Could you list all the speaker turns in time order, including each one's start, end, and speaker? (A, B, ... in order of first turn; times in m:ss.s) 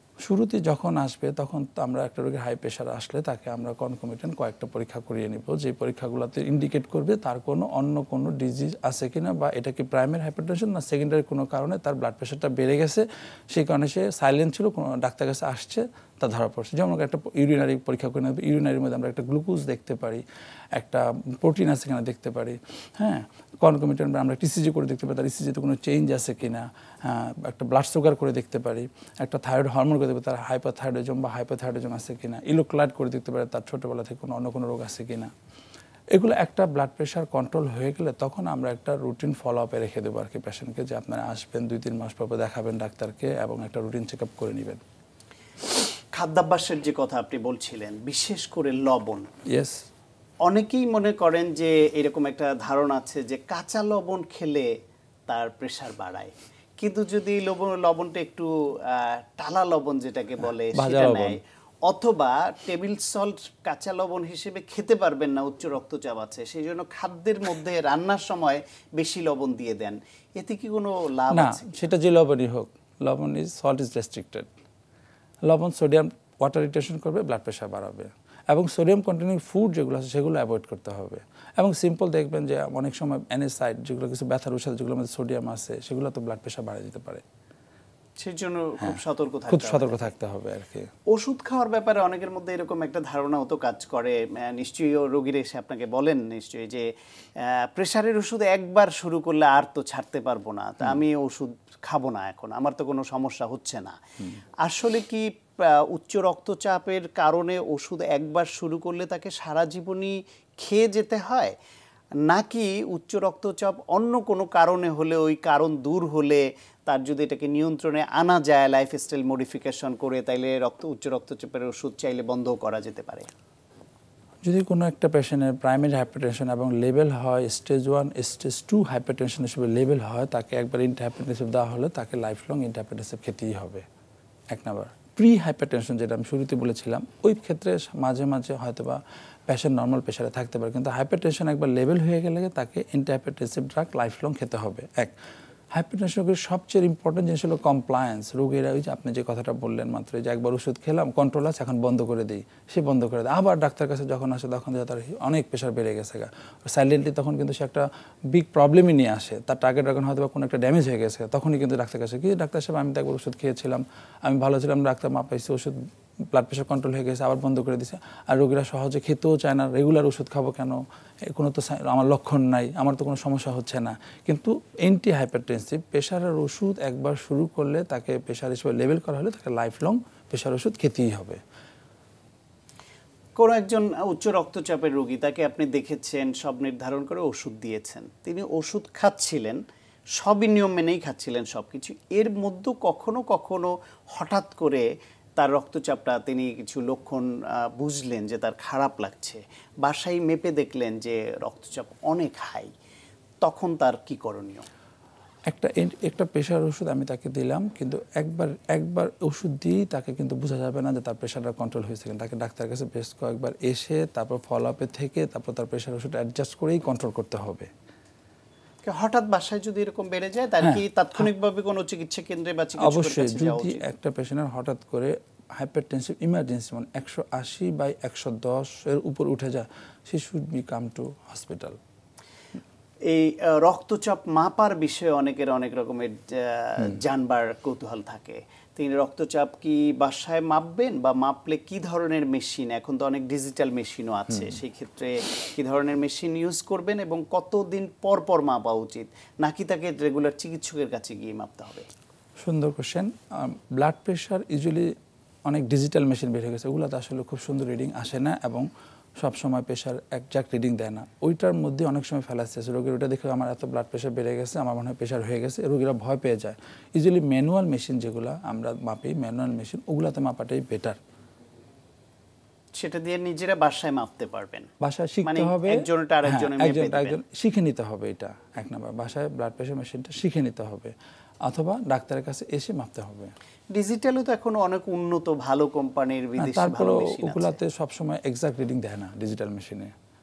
0:00.2-0:20.2 A
0:20.7-0:35.3 A
0:36.1-0:44.8 A
0:46.1-0:49.3 B
0:49.5-0:49.8 A
0:50.4-0:54.7 B
0:55.3-1:11.7 B
1:00.7-1:01.4 A
1:11.3-1:14.5 A
1:15.4-1:27.2 A
1:28.2-1:30.1 B
1:28.8-1:30.9 A
1:31.1-1:36.9 B
1:37.4-1:44.0 B
1:44.6-1:51.5 B
1:52.2-2:03.3 B
2:04.4-2:13.8 A
2:14.5-2:25.1 A
2:25.7-2:45.7 A
2:46.3-3:01.4 A
3:03.4-3:09.6 B
3:10.2-3:14.8 B
3:15.4-3:22.7 B
3:23.4-3:24.6 B
3:25.5-3:37.7 A
3:38.8-3:43.8 B
3:42.8-3:51.8 A
3:53.0-4:11.8 B
4:12.4-4:14.9 A
4:15.4-4:31.0 A
4:32.7-4:34.7 B
4:34.8-4:40.9 A
4:35.2-4:37.2 B
4:41.4-4:43.3 A
4:43.7-4:47.6 B
4:46.4-4:49.9 A